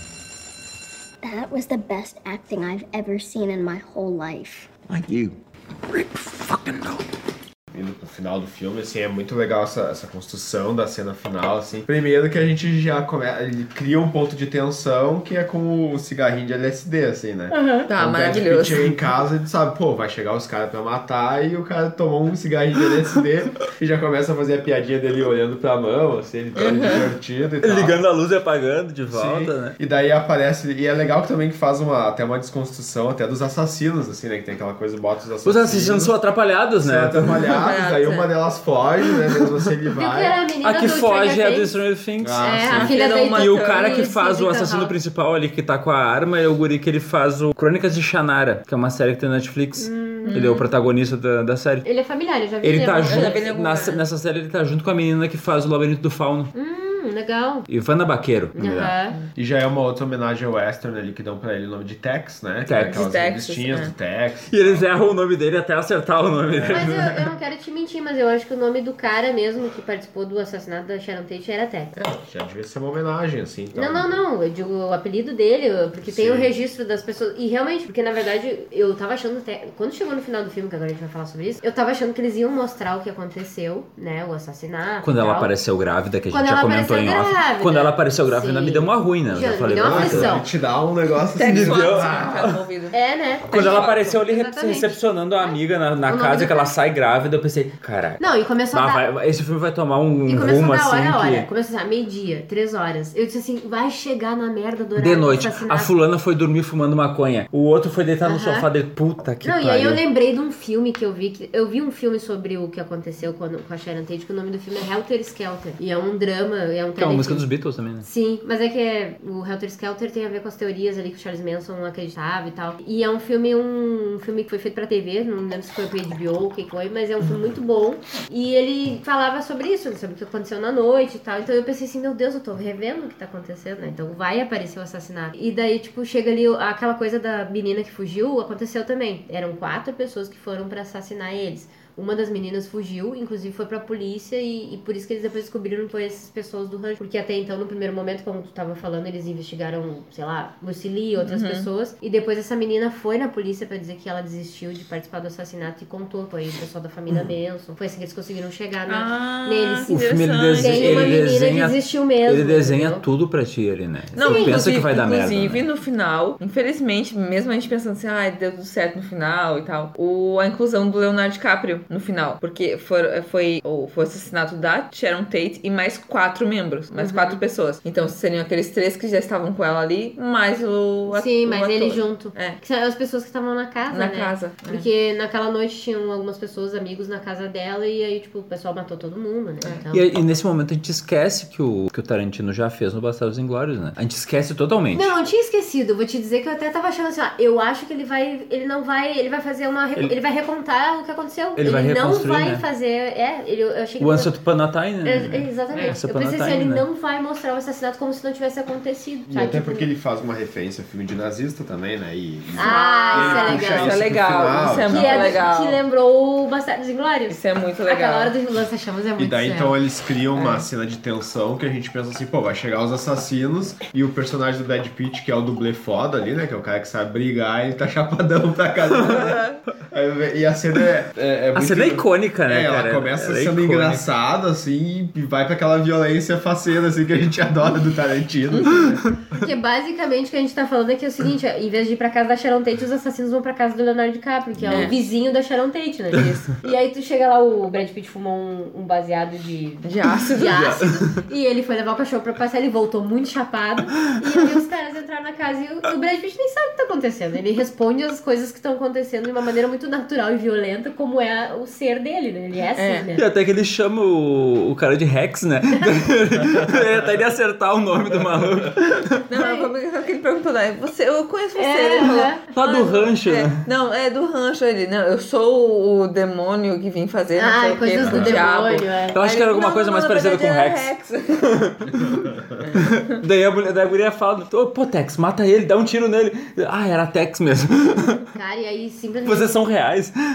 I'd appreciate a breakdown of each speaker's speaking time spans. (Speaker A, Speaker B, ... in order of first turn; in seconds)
Speaker A: 1.2-4.7
Speaker B: 4.8-7.1
Speaker C: 7.7-28.0, 29.1-36.1, 36.8-40.4, 42.2-42.9, 59.4-64.8, 71.9-74.2, 76.0-76.5, 89.8-92.5, 209.3-215.5, 219.2-239.0, 244.6-244.9, 278.0-278.4
Speaker D: 17.5-17.9, 40.0-41.8, 42.4-44.9, 49.8-50.5, 51.8-53.5, 56.5-57.7, 58.5-59.1, 66.7-71.9, 73.7-85.5, 86.3-90.5, 92.9-96.8, 98.2-99.0, 100.2-105.9, 108.2-108.7, 109.4-159.9, 160.6-163.0, 164.2-164.6, 176.9-177.4, 181.1-190.1, 194.9-204.3, 205.0-209.9, 212.5-214.0, 214.9-219.8, 239.4-263.2, 269.4-269.7, 271.6-272.5, 277.4-279.2, 288.3-289.6
Speaker E: 17.9-19.0, 26.6-27.0, 37.6-38.3, 42.7-44.1, 50.2-50.7, 53.1-54.0, 62.8-63.9, 91.3-93.0, 93.5-94.2, 151.2-151.7, 158.9-161.2, 164.2-182.6, 183.9-184.9, 212.6-215.8, 217.3-218.3, 220.3-220.6, 229.0-229.6, 238.5-238.9, 244.7-245.0, 246.1-246.5, 249.8-250.7, 262.8-263.1, 269.3-281.4, 282.6-283.1
Speaker F: 27.6-29.8, 35.4-37.6, 40.6-51.9, 52.6-56.5, 57.7-58.9, 62.7-63.0, 64.5-67.2, 85.0-90.4, 91.4-92.5, 93.5-101.5, 104.9-110.0, 117.0-118.1, 159.9-165.7, 189.9-195.1, 201.6-202.6, 204.0-206.8, 231.5-234.1, 250.5-251.1, 263.1-269.2, 272.5-273.6, 279.1-282.2, 282.8-288.2, 289.2-290.1